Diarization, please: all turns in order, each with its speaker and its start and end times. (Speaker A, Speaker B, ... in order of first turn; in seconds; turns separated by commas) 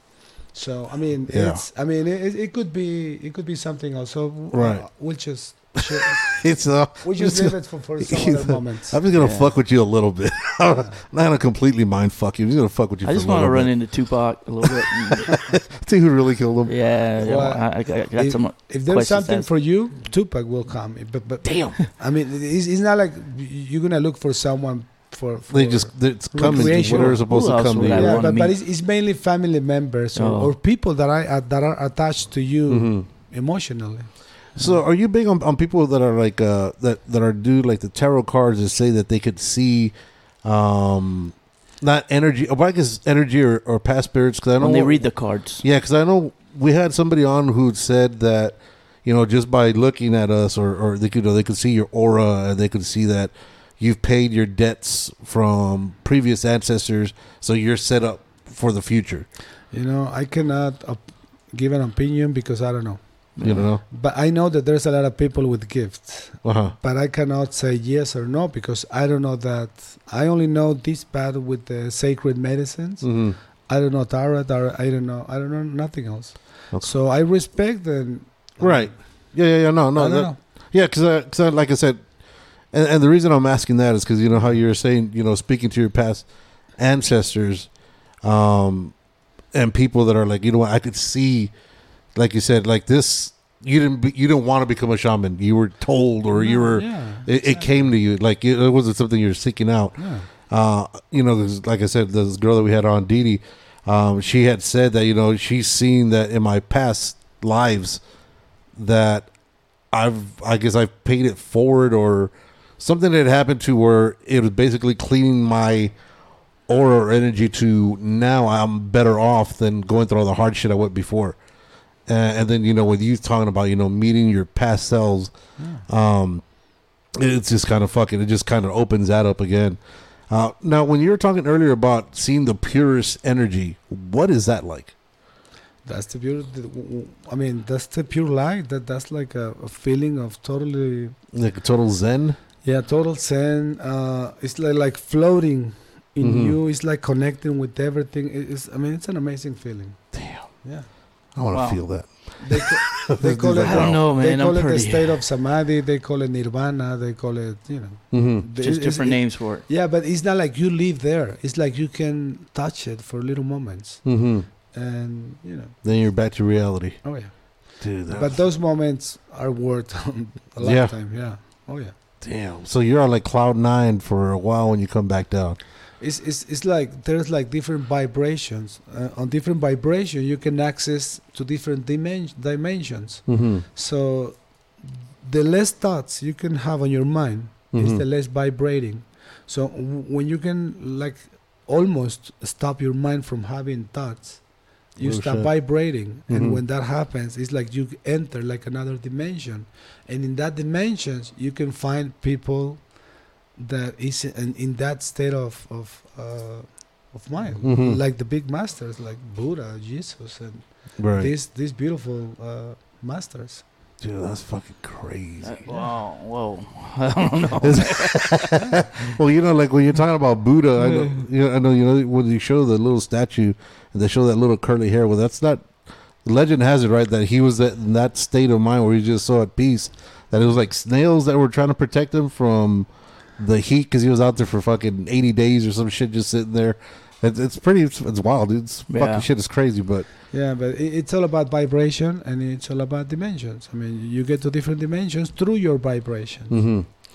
Speaker A: 0.4-6.4, Speaker B: 1.3-1.6, Speaker B: 4.5-4.8, Speaker B: 5.8-13.7, Speaker A: 7.0-9.0, Speaker C: 9.1-9.5, Speaker C: 13.0-15.4, Speaker B: 14.7-16.7, Speaker C: 16.6-19.5, Speaker A: 17.2-34.8, Speaker B: 21.4-21.8, Speaker B: 25.5-28.3, Speaker C: 26.4-28.5, Speaker C: 30.1-30.5, Speaker B: 32.7-33.0, Speaker B: 34.6-45.1, Speaker C: 44.6-45.6, Speaker B: 45.6-59.2, Speaker A: 59.7-63.0, Speaker C: 63.4-63.6, Speaker B: 63.4-63.8, Speaker A: 63.8-73.1, Speaker B: 66.4-66.7, Speaker B: 73.0-73.4, Speaker A: 73.7-78.9, Speaker B: 78.6-82.0, Speaker A: 80.0-80.4, Speaker B: 82.7-86.2, Speaker B: 86.8-87.7, Speaker B: 88.2-88.9, Speaker B: 89.5-91.5, Speaker B: 92.1-108.0, Speaker A: 96.3-97.9, Speaker A: 100.0-100.3, Speaker B: 108.7-109.3, Speaker B: 109.9-115.9, Speaker B: 116.7-121.4, Speaker B: 122.1-125.3, Speaker A: 125.6-125.8, Speaker B: 125.9-126.4, Speaker B: 127.2-129.8, Speaker B: 130.3-134.9, Speaker A: 135.8-141.2, Speaker B: 141.3-142.4, Speaker A: 142.6-150.0, Speaker B: 146.2-146.6, Speaker B: 150.1-150.4, Speaker B: 151.3-154.0, Speaker C: 151.5-151.8, Speaker A: 152.4-164.0, Speaker C: 153.6-155.2, Speaker B: 158.1-158.4, Speaker C: 158.6-159.6, Speaker B: 164.0-164.5, Speaker A: 164.7-165.7, Speaker B: 165.8-167.0, Speaker A: 167.0-171.9, Speaker B: 167.8-168.4, Speaker B: 170.6-170.9, Speaker B: 172.2-175.6, Speaker A: 176.0-184.4, Speaker B: 183.3-183.6, Speaker A: 185.2-194.4, Speaker B: 187.7-188.0, Speaker A: 194.9-202.9, Speaker B: 195.0-195.5, Speaker B: 196.3-196.6, Speaker A: 203.6-213.6, Speaker B: 207.6-208.0, Speaker B: 211.0-211.3, Speaker B: 214.0-215.6, Speaker C: 215.4-218.6, Speaker B: 217.6-225.7, Speaker A: 218.6-218.8, Speaker C: 220.9-221.2, Speaker B: 226.2-240.1, Speaker C: 238.9-239.3, Speaker A: 240.3-246.6, Speaker B: 246.5-246.9